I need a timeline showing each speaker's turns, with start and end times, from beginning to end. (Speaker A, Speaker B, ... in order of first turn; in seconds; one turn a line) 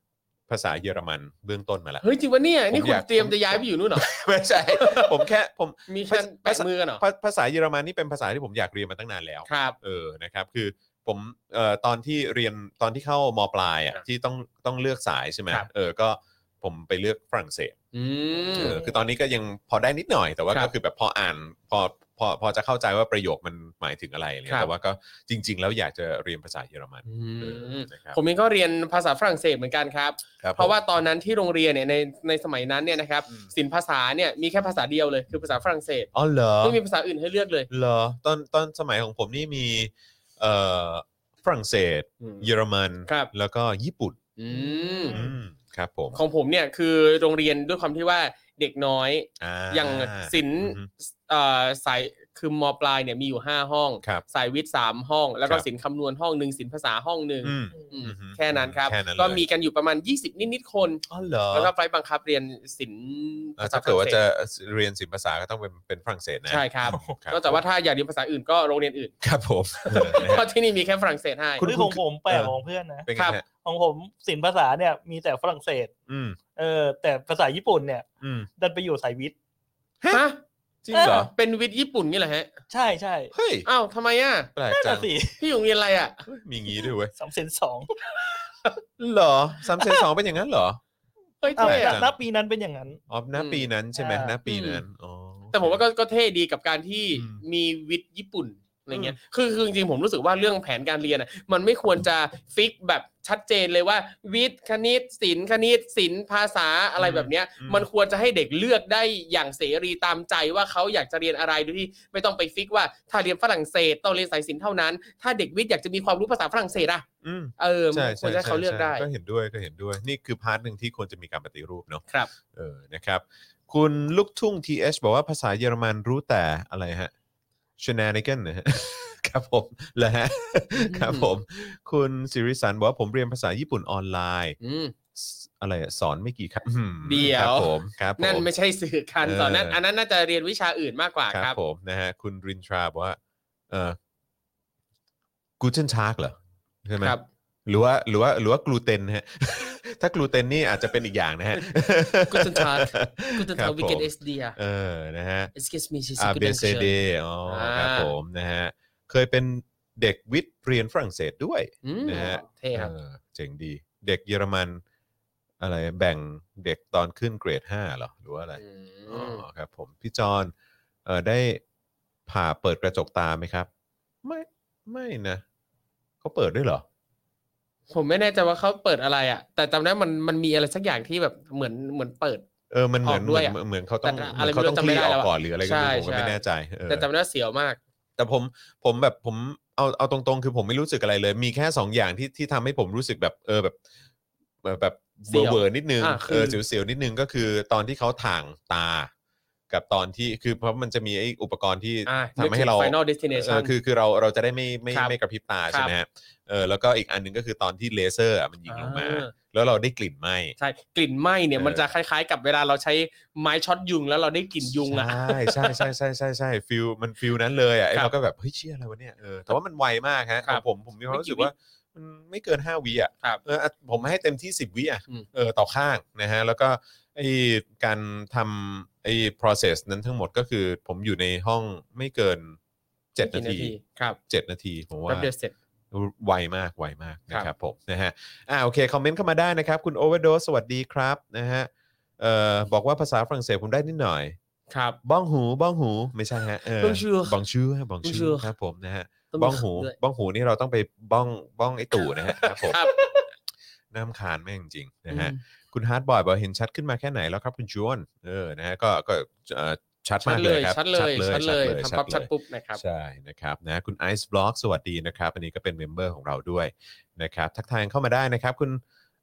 Speaker A: 0.5-2.0
Speaker B: 2.0-4.1
Speaker A: 2.7-17.8
Speaker B: 4.7-5.2
Speaker B: 5.9-7.0
Speaker B: 9.5-9.8
Speaker B: 17.9-18.8
Speaker A: 18.6-28.2
Speaker B: 27.1-36.1
Speaker A: 30.4-30.7
Speaker A: 36.1-36.8
Speaker B: 36.6-37.7
Speaker A: 37.7-44.2
Speaker B: 42.2-42.5
Speaker B: 43.1-43.3
Speaker B: 44.4-45.2
Speaker C: 44.5-45.3
Speaker A: 45.1-46.2
Speaker B: 46.1-64.2
Speaker A: 49.4-50.9
Speaker A: 57.4-59.4
Speaker A: 61.1-61.7
Speaker A: 63.6-67.6
Speaker B: 66.5-69.1
Speaker A: 69.2-70.5
Speaker B: 69.8-71.7
Speaker A: 71.6-73.5
Speaker C: 71.6-73.1
Speaker B: 73.2-73.4
Speaker C: 73.6-75.9
Speaker A: 76.1-76.4
Speaker C: 76.6-79.3
Speaker A: 78.2-78.5
Speaker B: 80.1-80.4
Speaker A: 80.8-81.3
Speaker B: 80.9-82.5
Speaker C: 80.9-81.2
Speaker C: 82.7-83.3
Speaker A: 83.3-83.7
Speaker B: 83.7-84.5
Speaker A: 84.6-85.1
Speaker C: 84.7-85.4
Speaker B: 85.4-86.2
Speaker A: 86.2-87.1
Speaker C: 87.2-88.0
Speaker A: 89.0-90.8
Speaker B: 91.4-92.0
Speaker C: 91.5-93.0
Speaker A: 91.6-92.1
Speaker A: 93.1-95.8
Speaker B: 93.3-93.7
Speaker C: 94.0-94.4
Speaker B: 94.5-94.8
Speaker B: 95.5-117.0
Speaker A: 97.2-97.4
Speaker A: 98.9-99.2
Speaker A: 107.0-107.9
Speaker A: 117.2-127.1
Speaker B: 117.6-119.1
Speaker A: 127.8-134.6
Speaker B: 130.8-131.3
Speaker B: 134.6-134.9
Speaker A: 135.2-138.5
Speaker B: 137.0-141.6
Speaker A: 139.2-139.8
Speaker A: 141.3-143.2
Speaker A: 143.7-144.0
Speaker A: 145.6-155.5
Speaker B: 147.0-147.2
Speaker B: 151.5-154.6
Speaker B: 155.5-158.1
Speaker A: 156.2-164.8
Speaker B: 161.8-162.9
Speaker A: 165.6-170.5
Speaker B: 168.6-169.4
Speaker A: 171.1-171.6
Speaker A: 172.3-173.7
Speaker A: 174.2-175.4
Speaker A: 176.2-176.8
Speaker B: 177.9-182.4
Speaker A: 182.7-187.1
Speaker B: 183.0-187.8
Speaker A: 188.2-193.8
Speaker A: 194.6-199.1
Speaker B: 195.3-196.6
Speaker A: 199.7-210.6
Speaker B: 202.1-203.7
Speaker B: 208.7-209.3
Speaker B: 210.6-215.8
Speaker A: 211.6-211.8
Speaker A: 214.9-232.6
Speaker B: 220.4-221.5
Speaker A: 233.2-233.8
Speaker B: 233.2-234.2
Speaker A: 234.3-235.3
Speaker B: 235.1-235.5
Speaker A: 235.9-244.4
Speaker B: 244.7-245.0
Speaker A: 245.0-252.8
Speaker B: 246.8-247.4
Speaker B: 248.0-248.5
Speaker B: 249.3-249.9
Speaker B: 252.0-253.3
Speaker A: 253.9-268.8
Speaker B: 255.1-255.4
Speaker B: 260.2-262.8